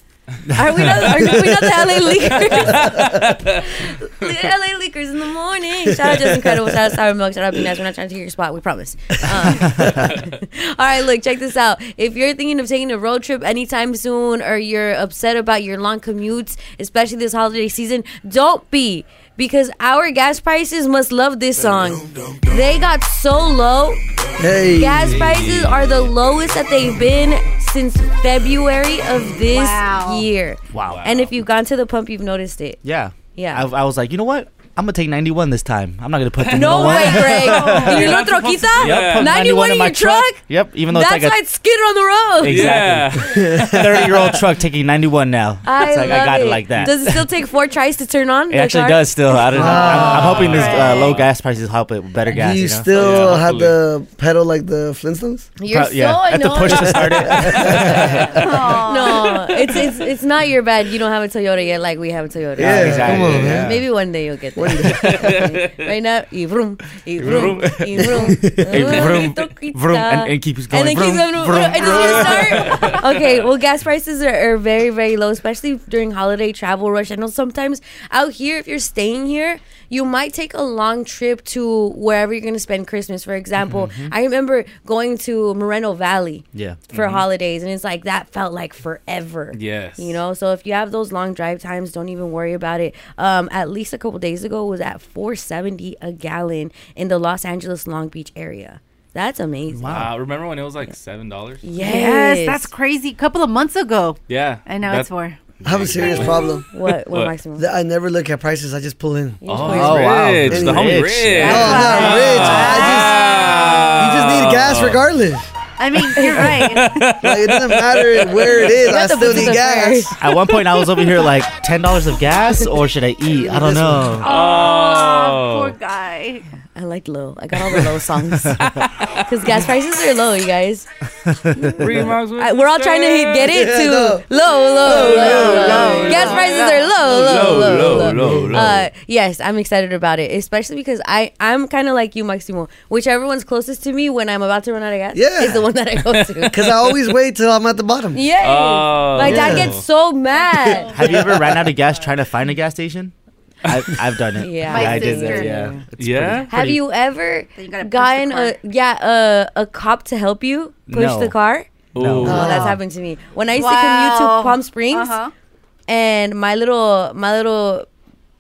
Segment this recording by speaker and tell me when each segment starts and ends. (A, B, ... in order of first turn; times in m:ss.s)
0:00.5-0:01.2 A
0:00.5-0:03.0 B
0:02.4-0:03.7 C
0:03.6-0:24.0 B
0:06.1-0:06.5 D
0:09.6-0:09.9 A
0:24.4-0:25.2 D
0:24.7-0:32.8 B
0:25.0-0:26.1 C
0:29.4-0:30.3 E
0:30.7-0:31.0 A
0:30.8-0:31.3 C
0:32.8-0:38.2 A
0:33.3-0:33.6 B
0:36.4-0:39.3 C
0:36.5-0:42.8 B
0:37.3-0:38.0 E
0:38.8-0:41.4 A
0:42.4-0:47.3 A
0:42.4-0:44.0 C
0:43.5-0:44.1 D
0:45.6-0:50.0 B
0:48.5-0:53.2 A
0:49.5-0:50.5 D
0:49.8-0:51.3 C
0:49.9-0:51.2 E
0:52.3-0:55.5 D
0:52.9-0:53.8 C
0:55.6-1:39.9 B
0:55.7-0:58.7 A
0:56.6-0:58.4 D
0:58.3-0:59.4 E
1:02.6-1:03.8 D
1:02.6-1:03.7 A
1:03.0-1:03.8 C
1:04.6-1:05.4 D
1:04.8-1:05.8 C
1:07.2-1:13.0 A
1:07.2-1:07.8 C
1:08.0-1:08.9 D
1:12.2-1:13.4 C
1:23.6-1:24.1 A
1:26.5-1:26.8 A
1:26.9-1:27.2 C
1:29.5-1:30.2 C
1:39.7-1:40.1 A
1:39.9-1:41.6 C
1:41.6-1:42.7 B
1:41.7-1:45.4 E
1:44.3-1:47.3 C
1:45.6-1:46.6 D
1:46.7-1:47.6 B
1:47.6-1:55.5 D
1:49.4-1:50.1 B
1:49.5-1:55.0 C
1:49.7-1:51.7 A
1:51.4-1:53.9 E
1:51.5-1:53.0 B
1:55.8-1:57.0 E
1:56.1-1:56.5 B
1:56.2-1:58.7 C
1:57.2-2:00.2 D
1:58.8-2:00.1 B
2:00.2-2:04.3 A
2:03.4-2:04.3 D
2:04.2-2:06.5 E
2:04.2-2:05.7 C
2:06.7-2:08.6 B
2:08.6-2:08.9 C
2:09.2-2:10.8 B
2:11.2-2:12.1 A
2:11.6-2:13.5 C
2:12.4-2:26.6 B
2:13.4-2:14.2 D
2:14.8-2:17.1 E
2:14.8-2:16.4 D
2:17.0-2:18.8 C
2:17.5-2:18.7 D
2:25.1-2:25.7 D
2:26.5-2:28.2 D
2:28.1-2:31.2 B
2:28.4-2:29.8 C
2:29.2-2:29.8 D
2:30.3-2:31.9 E
2:30.9-2:33.1 A
2:33.6-2:36.8 A
2:34.4-2:35.8 B
2:34.7-2:35.7 E
2:36.0-2:36.5 C
2:36.5-2:41.7 B
2:37.5-2:38.5 E
2:40.9-2:41.3 A
2:41.9-2:42.7 C
2:42.0-2:42.6 A
2:42.2-2:45.1 B
2:42.2-2:42.8 D
2:42.4-2:42.7 E
2:43.5-2:45.3 E
2:45.9-2:47.9 B